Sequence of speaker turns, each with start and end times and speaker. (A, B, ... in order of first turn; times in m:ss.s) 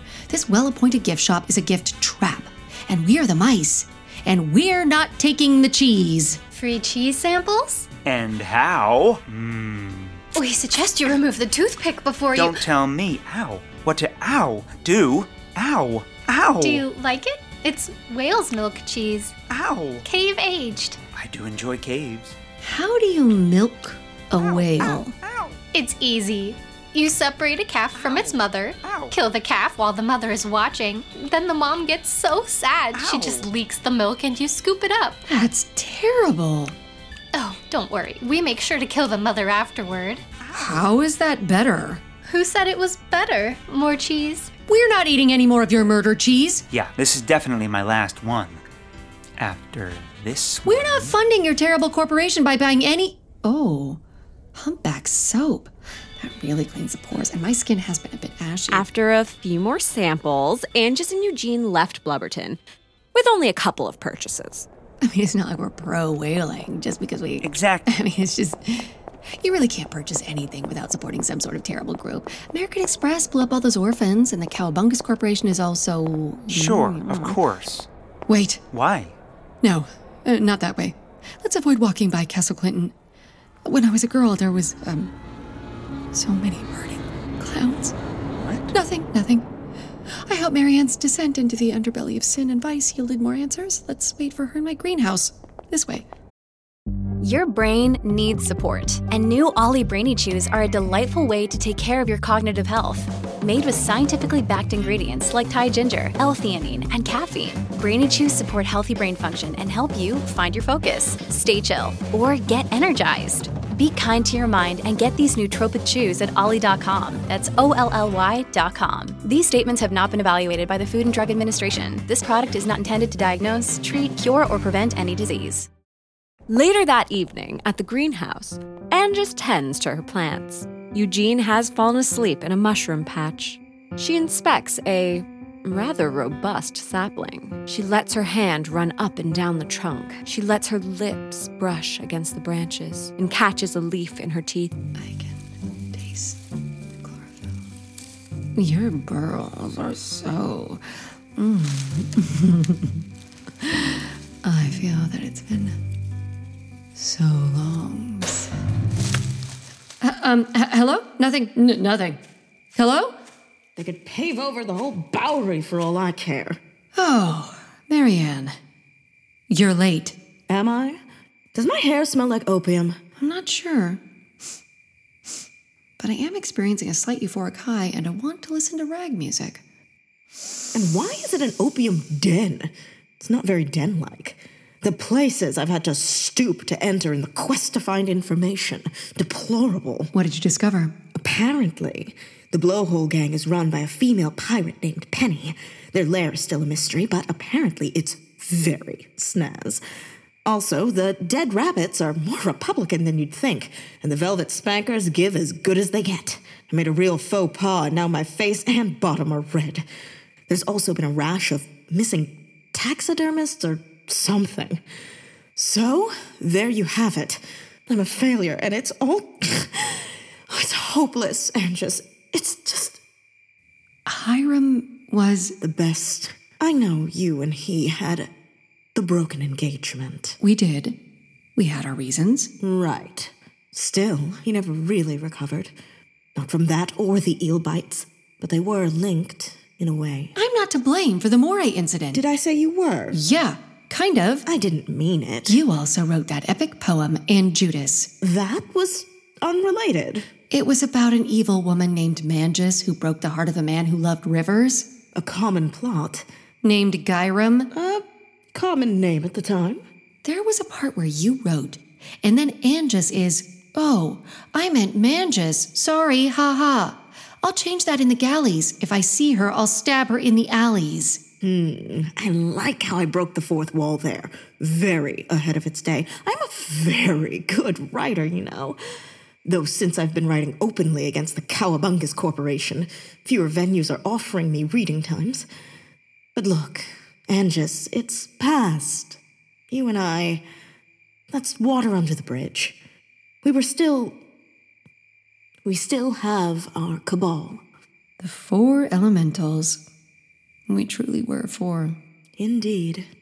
0:00.3-0:06.4 A
0:06.5-0:07.9 B
0:08.0-0:10.2 C
0:10.3-0:12.6 B
0:12.3-0:16.8 C
0:16.6-0:19.4 B
0:19.5-0:20.0 C
0:20.0-0:21.0 B
0:21.1-0:22.4 C
0:22.6-0:25.1 A
0:24.4-0:25.6 C
0:25.7-0:35.2 B
0:28.0-0:29.1 C
0:32.9-0:33.5 C
0:35.3-0:36.7 A
0:37.3-0:40.2 B
0:40.5-0:42.0 A
0:42.2-0:44.5 B
0:44.7-0:46.6 A
0:46.7-0:48.6 C
0:49.4-0:51.2 C
0:50.6-0:54.0 A
0:54.5-0:58.9 A
0:58.7-1:02.6 D
1:03.1-1:04.7 D
1:05.0-1:17.4 A
1:07.4-1:07.9 C
1:16.5-1:17.9 C
1:18.3-1:18.6 A
1:18.7-1:19.2 C
1:19.6-1:22.9 A
1:23.6-1:25.1 A
1:26.1-1:27.9 A
1:28.4-1:28.7 C
1:28.7-1:29.5 A
1:30.2-1:36.0 A
1:37.2-2:05.7 E
2:06.5-2:24.8 D
2:25.0-2:26.4 A
2:27.0-2:27.6 A
2:28.6-2:30.8 A
2:31.4-2:33.0 A
2:33.6-2:35.8 A
2:37.0-2:38.5 A
2:40.0-2:42.2 A
2:42.7-2:43.1 A
2:43.8-2:46.6 F
2:47.0-2:48.6 A
2:49.5-2:50.2 A
2:50.5-2:51.0 F
2:51.5-2:53.0 F
2:53.2-2:54.0 A
2:56.0-2:59.6 A
3:00.7-3:10.1 F
3:10.1-3:11.0 A
3:11.1-3:19.8 F
3:20.4-3:29.8 F
3:30.5-3:34.8 F
3:35.6-3:43.0 F
3:44.1-3:45.5 A
3:45.6-3:48.3 F
3:48.9-3:50.4 F
3:50.4-3:51.0 A
3:51.6-3:52.5 A
3:52.6-3:55.7 F
3:56.3-4:00.3 F
4:00.3-4:02.2 A
4:02.1-4:03.2 F
4:03.1-4:04.4 A
4:04.4-4:05.6 F
4:05.4-4:08.1 A
4:08.2-4:10.3 F
4:10.5-4:14.9 A
4:15.1-4:16.2 F
4:16.6-4:17.7 A
4:17.7-4:19.8 F
4:20.2-4:31.2 A
4:31.4-4:38.8 F
4:39.4-4:45.5 F
4:46.3-4:49.2 F
4:49.7-4:50.4 F
4:51.3-4:52.8 F
4:53.4-4:54.2 F
4:55.6-4:57.6 F
4:58.2-4:59.8 A
5:00.7-5:02.0 A
5:02.4-5:03.1 F